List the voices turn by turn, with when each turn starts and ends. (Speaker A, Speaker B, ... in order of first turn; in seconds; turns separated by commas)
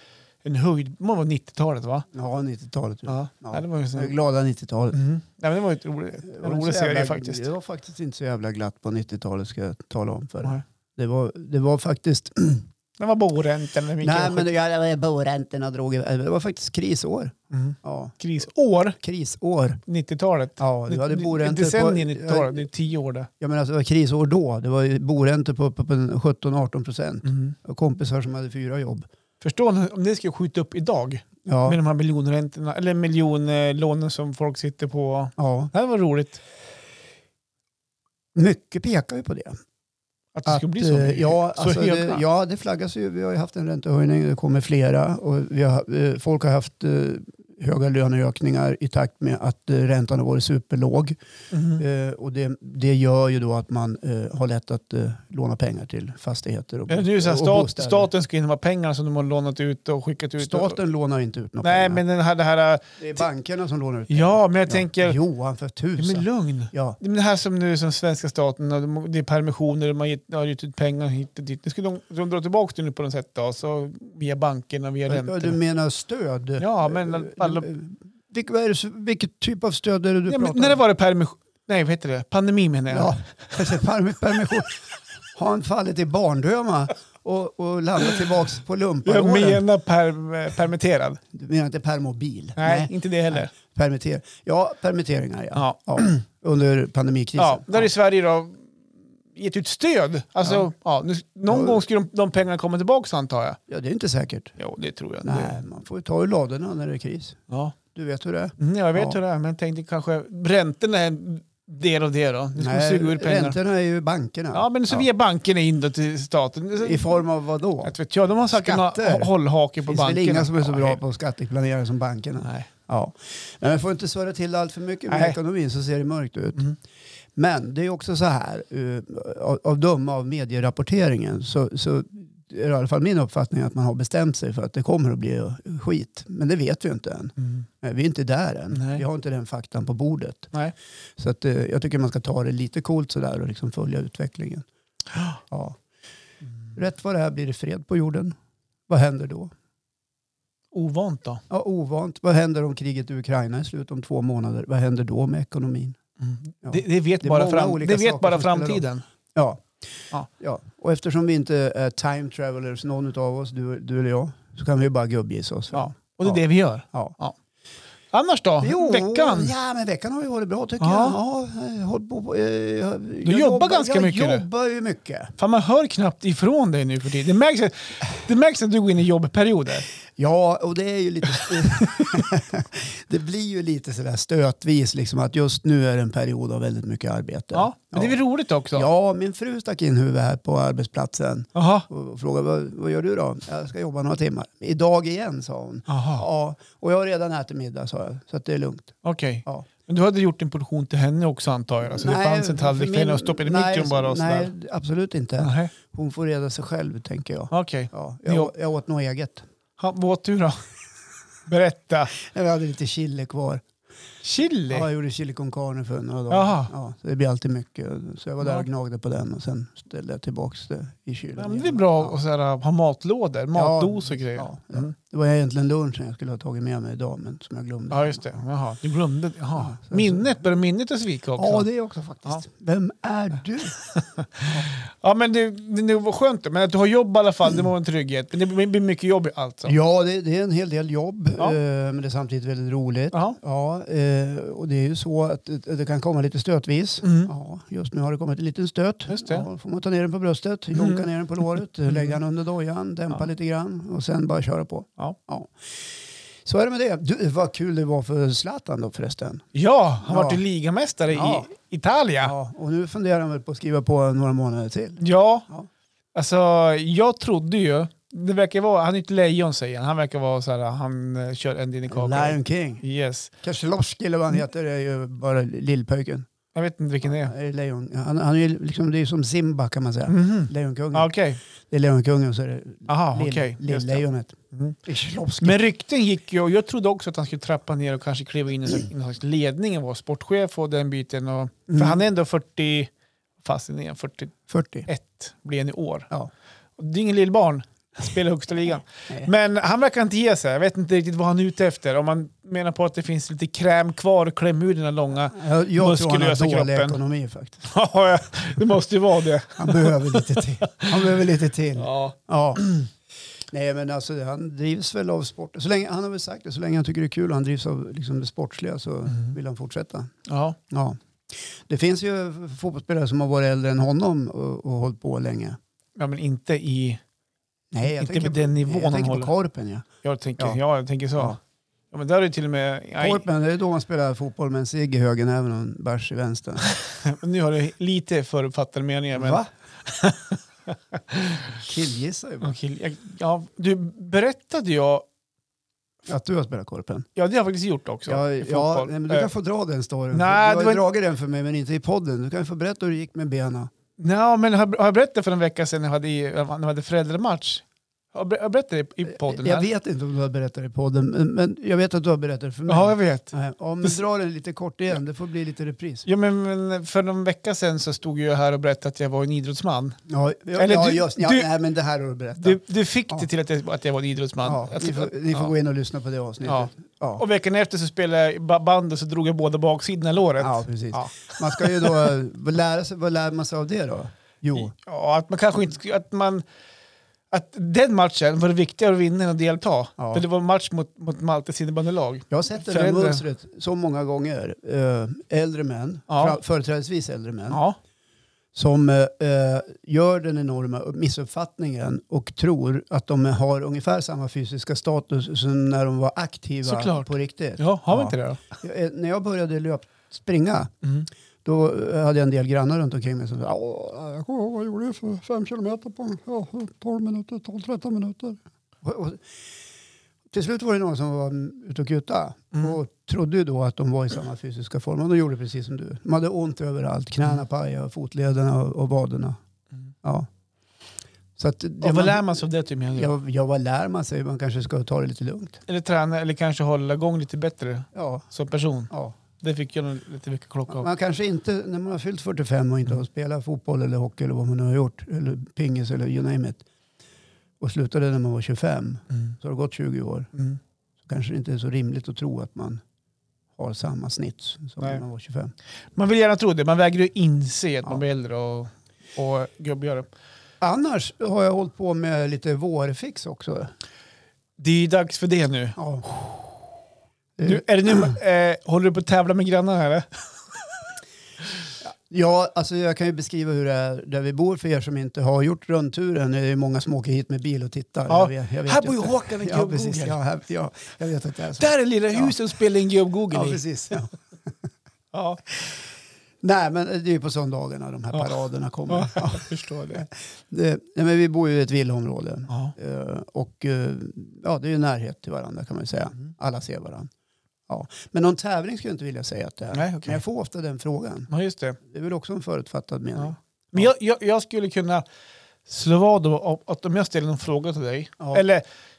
Speaker A: 0.4-2.1, Speaker B: 2.1-5.0, Speaker A: 3.1-4.1, Speaker A: 4.9-7.5, Speaker B: 6.2-12.7, Speaker A: 13.0-14.5, Speaker B: 14.0-18.2, Speaker A: 17.5-19.0, Speaker B: 19.0-19.8, Speaker A: 19.9-23.3, Speaker B: 20.6-22.7, Speaker B: 23.4-29.1, Speaker A: 27.2-27.5, Speaker A: 29.4-36.4, Speaker B: 31.4-31.8, Speaker B: 35.4-35.7, Speaker B: 38.3-39.6, Speaker A: 40.3-42.2, Speaker B: 40.5-51.1, Speaker A: 51.5-51.8, Speaker B: 51.8-58.1, Speaker A: 56.9-60.8, Speaker B: 60.4-62.0, Speaker A: 61.6-62.8, Speaker B: 63.0-67.0, Speaker A: 64.1-65.2, Speaker A: 66.0-75.6, Speaker B: 75.1-80.8, Speaker A: 76.6-77.7, Speaker A: 80.3-83.1, Speaker B: 82.9-84.8, Speaker B: 85.3-89.6, Speaker A: 89.0-91.2, Speaker B: 91.3-97.9, Speaker A: 92.6-93.5, Speaker A: 95.5-96.1, Speaker A: 97.4-98.7, Speaker A: 99.3-103.6, Speaker B: 101.5-101.8, Speaker B: 103.7-104.6, Speaker A: 104.6-105.6, Speaker B: 105.2-107.4, Speaker A: 107.5-107.8, Speaker B: 107.9-109.2, Speaker A: 108.6-113.5, Speaker B: 112.6-115.0, Speaker A: 114.5-117.2, Speaker B: 116.8-117.9, Speaker A: 117.8-121.0, Speaker B: 118.5-119.3, Speaker B: 119.8-126.7, Speaker A: 122.4-122.7, Speaker A: 125.1-125.4, Speaker B: 127.4-140.5, Speaker A: 137.4-137.6, Speaker A: 138.7-139.0, Speaker B: 141.2-144.6, Speaker A: 145.1-145.4, Speaker B: 145.5-145.8, Speaker B: 146.7-148.3, Speaker B: 148.9-149.5, Speaker A: 150.7-151.4, Speaker B: 151.5-156.0, Speaker A: 156.2-159.0, Speaker B: 156.6-166.4, Speaker A: 165.7-167.3, Speaker A: 168.1-169.5, Speaker B: 168.6-175.3, Speaker A: 170.8-171.2, Speaker A: 173.2-174.4, Speaker A: 175.4-179.8, Speaker B: 180.2-188.2, Speaker A: 181.4-182.2, Speaker A: 187.5-188.8, Speaker B: 188.7-199.7, Speaker A: 191.5-191.8, Speaker A: 195.9-196.2, Speaker A: 199.0-204.5, Speaker B: 201.8-209.4, Speaker A: 205.4-205.7, Speaker A: 207.5-208.5, Speaker A: 209.8-210.6, Speaker A: 211.4-212.1, Speaker B: 212.1-213.6, Speaker A: 214.2-214.9, Speaker B: 214.7-222.2, Speaker A: 216.3-216.7, Speaker A: 221.4-224.9, Speaker B: 223.5-228.4, Speaker A: 227.9-231.7, Speaker B: 229.6-230.4, Speaker B: 231.3-233.8, Speaker A: 233.8-239.8, Speaker B: 234.4-234.7, Speaker B: 239.7-255.5, Speaker A: 243.1-243.4, Speaker A: 247.0-247.3, Speaker A: 249.1-249.4, Speaker A: 250.7-251.0, Speaker A: 251.9-252.2, Speaker B: 256.4-259.4, Speaker A: 259.5-262.3, Speaker B: 260.1-260.4, Speaker B: 261.1-261.5, Speaker B: 262.2-265.7, Speaker A: 265.0-265.4, Speaker A: 266.1-273.3, Speaker B: 271.9-272.8, Speaker B: 273.4-276.3, Speaker A: 276.5-277.3, Speaker B: 277.0-281.1, Speaker A: 280.1-281.4, Speaker B: 281.7-285.6, Speaker A: 282.9-284.8, Speaker A: 285.4-294.3, Speaker B: 291.7-292.0, Speaker B: 294.5-294.9, Speaker A: 294.9-296.1, Speaker A: 296.8-307.0, Speaker B: 305.3-307.7, Speaker A: 307.6-311.1, Speaker B: 309.6-312.7, Speaker A: 311.8-312.8, Speaker B: 313.5-320.1, Speaker A: 320.2-320.6, Speaker B: 320.7-325.6, Speaker A: 325.9-327.0, Speaker B: 327.7-329.9, Speaker A: 327.8-329.3, Speaker A: 330.0-331.4, Speaker A: 331.9-333.2, Speaker B: 333.0-336.7, Speaker A: 336.8-341.6, Speaker B: 339.1-339.5, Speaker B: 341.6-342.6, Speaker A: 342.4-345.1, Speaker B: 346.1-347.1, Speaker A: 347.1-349.3, Speaker B: 348.1-353.7, Speaker A: 350.1-350.8, Speaker A: 354.0-359.6, Speaker B: 359.1-366.1, Speaker A: 362.7-364.0, Speaker A: 366.0-370.0, Speaker B: 370.1-373.3, Speaker A: 370.6-371.5, Speaker A: 372.4-375.5, Speaker B: 374.4-377.2, Speaker A: 376.4-382.1, Speaker B: 380.4-384.7, Speaker A: 384.6-386.4, Speaker A: 387.3-393.2, Speaker B: 390.0-390.2, Speaker B: 392.3-397.6, Speaker A: 396.1-396.4, Speaker A: 397.5-397.8, Speaker B: 398.5-410.7, Speaker A: 406.6-408.4, Speaker B: 411.4-419.2, Speaker B: 420.3-429.4, Speaker B: 431.4-432.2, Speaker A: 431.8-433.1, Speaker B: 432.9-435.6, Speaker A: 435.7-440.9, Speaker B: 437.9-438.2, Speaker B: 438.9-439.1, Speaker B: 440.7-446.6, Speaker B: 447.6-450.3, Speaker B: 451.1-452.8, Speaker B: 453.6-455.5, Speaker A: 455.9-460.1, Speaker B: 460.6-463.7, Speaker A: 464.6-466.2, Speaker B: 465.8-466.1, Speaker B: 467.4-468.2, Speaker A: 467.4-470.6, Speaker B: 471.8-482.4, Speaker A: 478.1-480.2, Speaker A: 481.6-483.6, Speaker B: 483.3-484.1, Speaker A: 485.1-485.4, Speaker B: 486.4-497.1, Speaker A: 488.9-490.0, Speaker A: 492.5-492.7, Speaker B: 497.7-501.3, Speaker A: 499.7-500.2, Speaker A: 501.3-501.8, Speaker B: 501.8-503.9, Speaker A: 503.2-505.0, Speaker A: 505.6-508.6